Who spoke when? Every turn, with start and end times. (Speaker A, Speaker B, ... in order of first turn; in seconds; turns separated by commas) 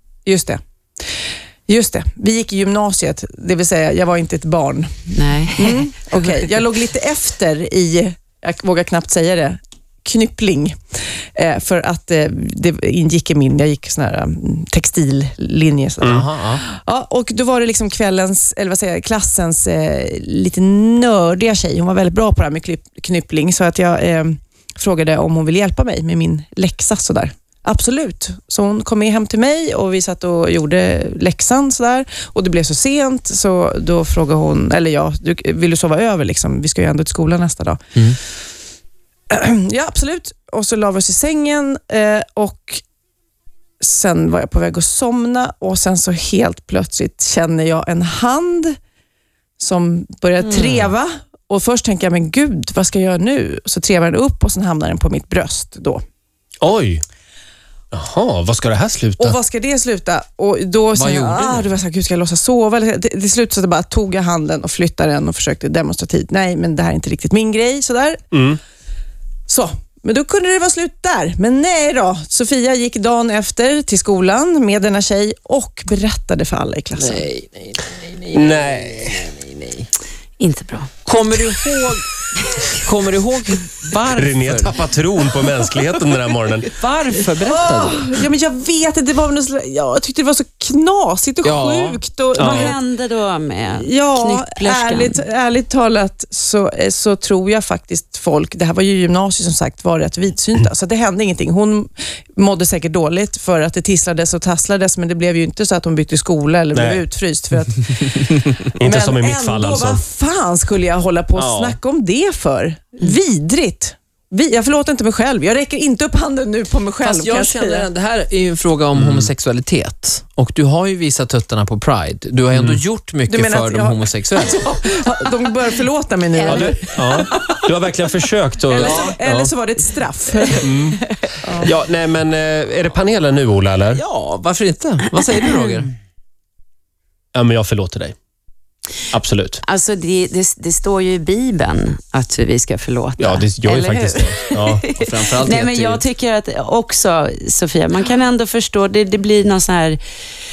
Speaker A: 0.2-0.6, Speaker A: 1.7-37.8, Speaker B: 5.1-6.4, Speaker C: 16.0-16.6, Speaker A: 39.3-42.8, Speaker A: 43.8-48.7, Speaker A: 49.6-56.0, Speaker D: 56.6-57.0, Speaker D: 57.9-59.4, Speaker A: 59.2-68.2, Speaker C: 60.9-61.7, Speaker D: 68.3-68.6, Speaker A: 69.5-77.3, Speaker C: 77.0-79.8, Speaker D: 78.3-79.3, Speaker B: 80.4-80.9, Speaker C: 81.0-82.0, Speaker C: 82.7-84.8, Speaker D: 84.1-86.7, Speaker C: 86.7-88.1, Speaker A: 87.3-92.8, Speaker C: 91.4-92.0, Speaker D: 92.3-92.8, Speaker B: 92.4-95.2, Speaker A: 93.7-117.9, Speaker D: 106.7-107.0, Speaker D: 108.8-110.0, Speaker D: 111.4-111.7, Speaker C: 117.0-124.6, Speaker D: 118.9-119.3, Speaker D: 122.5-122.8, Speaker A: 123.3-127.6, Speaker B: 126.3-126.8, Speaker D: 126.5-129.5, Speaker A: 128.7-131.7, Speaker C: 128.8-129.5, Speaker D: 130.6-131.0, Speaker D: 131.6-134.0, Speaker C: 133.9-135.9, Speaker D: 137.3-138.1, Speaker D: 139.1-139.6, Speaker B: 139.6-150.0, Speaker D: 143.2-144.8, Speaker C: 144.9-146.0